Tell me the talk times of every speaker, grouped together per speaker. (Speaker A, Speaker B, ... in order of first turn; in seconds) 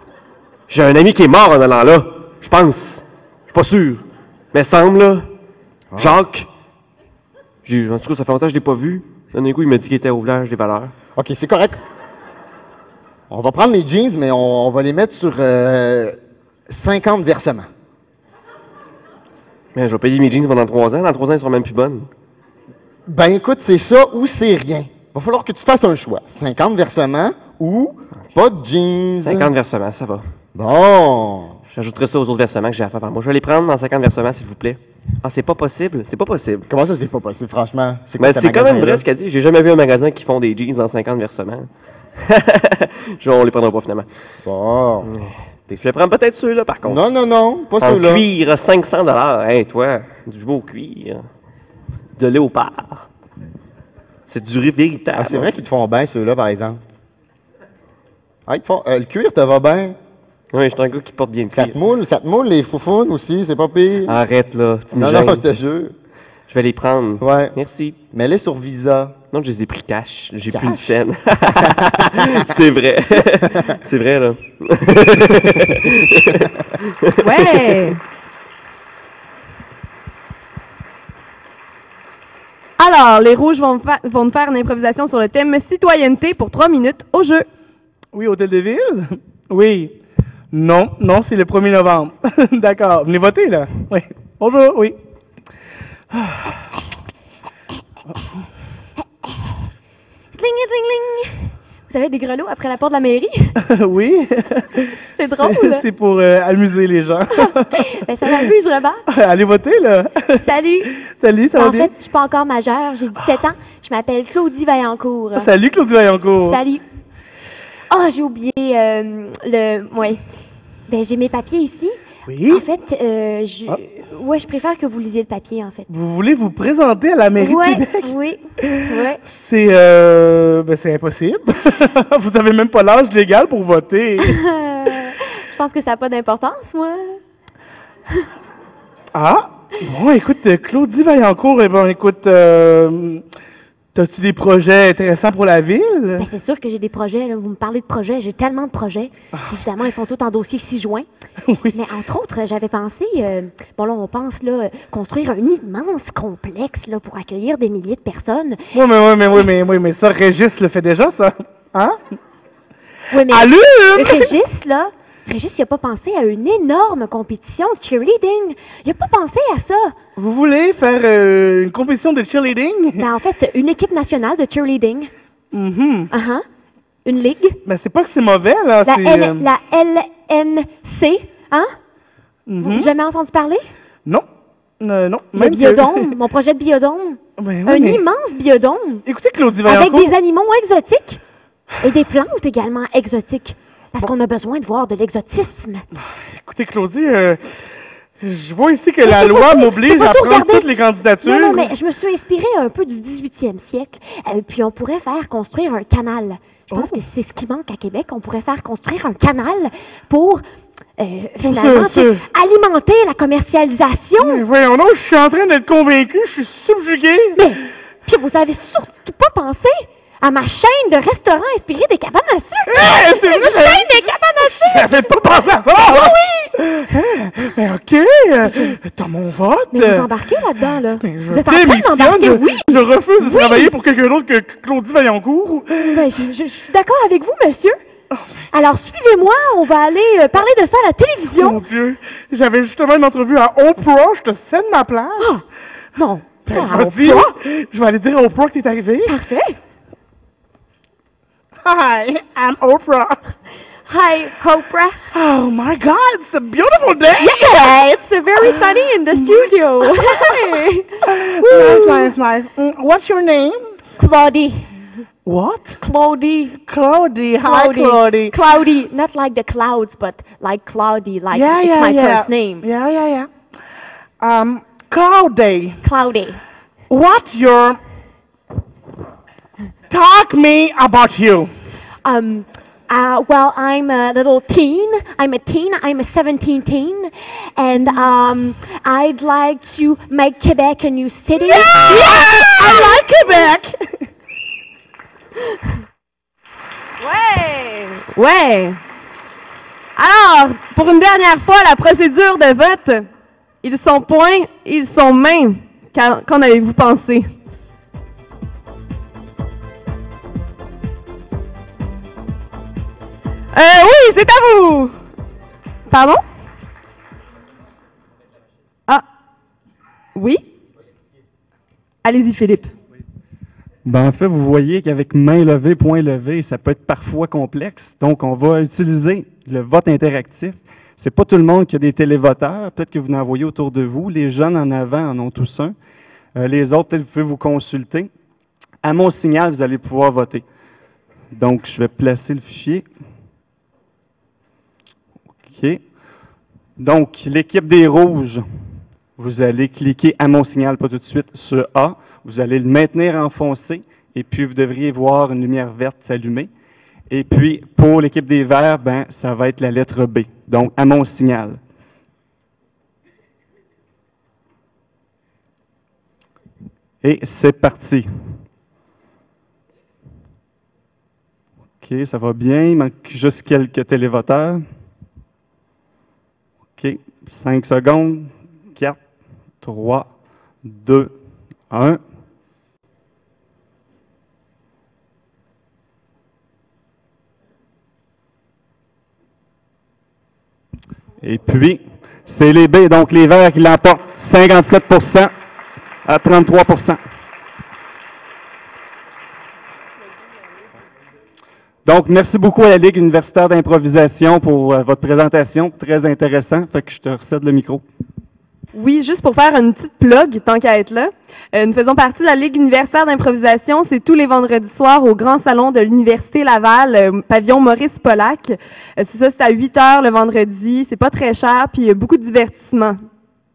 Speaker A: 0.7-5.3, 6.0-6.5, 7.6-10.9, 19.7-22.1, 29.2-30.2, 31.7-36.7, 38.2-44.1, 45.0-47.0, 47.8-51.2, 52.2-53.1, 54.3-55.6, 60.5-61.8, 64.0-65.5, 66.5-68.0, 69.3-77.8
Speaker B: 5.9-6.2, 11.2-11.8, 13.3-16.1, 16.7-17.7, 23.1-29.5, 30.5-31.6, 36.7-39.0, 44.4-45.1, 46.8-48.2, 55.1-56.8, 58.5-60.0, 61.5-64.2, 64.9-65.9, 67.2-67.5, 68.1-69.2, 70.5-71.0
Speaker C: 77.2-78.0, 82.8-87.5, 297.0-298.8, 299.9-303.1, 303.6-307.3, 313.5-314.9, 315.9-316.2, 320.1-320.4, 322.0-322.7, 408.7-423.0
Speaker D: 88.1-89.9, 90.5-95.0, 96.1-96.5, 103.6-107.7, 109.1-110.4, 111.0-111.9, 115.3-116.6, 122.3-122.6, 125.9-134.4, 139.1-143.2, 143.9-146.3, 151.4-151.8, 158.7-162.0, 163.3-164.3, 170.2-173.0, 175.5-176.1, 177.7-179.5, 182.5-182.9, 184.8-186.0, 187.4-188.0, 189.1-190.1, 196.2-197.4, 198.2-201.7, 206.7-207.0, 211.4-212.2, 214.2-217.5, 222.7-230.1, 231.0-236.1, 241.3-245.3, 246.4-249.2, 251.6-253.2, 255.1-257.3, 261.0-263.8, 265.2-265.8, 266.6-268.4, 271.3-273.3, 274.2-275.8, 276.9-277.8, 279.9-281.5, 291.5-293.9
Speaker E: 100.3-103.6, 105.1-105.8, 107.4-109.0, 110.3-110.9, 111.5-115.5, 116.4-116.8, 117.9-120.2, 120.9-125.9, 127.3-129.2, 134.2-137.2, 146.2-151.1, 151.7-158.6, 163.1-169.9, 173.0-175.1, 176.1-176.4, 177.0-177.6, 178.8-181.7, 182.6-183.6, 185.3-189.0, 189.6-191.2, 191.8-195.8, 199.0-200.7, 201.2-210.4, 211.0-214.4, 217.4-225.1, 225.7-226.6, 228.4-228.8, 229.7-233.7, 235.8-237.8, 238.5-241.6, 245.2-245.4, 246.0-247.3, 249.0-249.6, 253.9-255.0, 257.1-262.1, 264.0-264.8, 265.8-266.6, 267.4-272.6, 275.8-276.4, 282.0-293.5
Speaker F: 323.8-335.7, 336.4-338.1, 338.8-340.4, 341.3-342.8, 345.4-345.8, 346.8-348.4, 349.2-356.5, 357.1-361.6, 367.0-368.1, 371.8-374.6, 376.8-379.0, 379.6-380.1, 380.6-381.1, 381.7-382.0, 391.2-395.3, 396.1-397.0, 401.9-407.8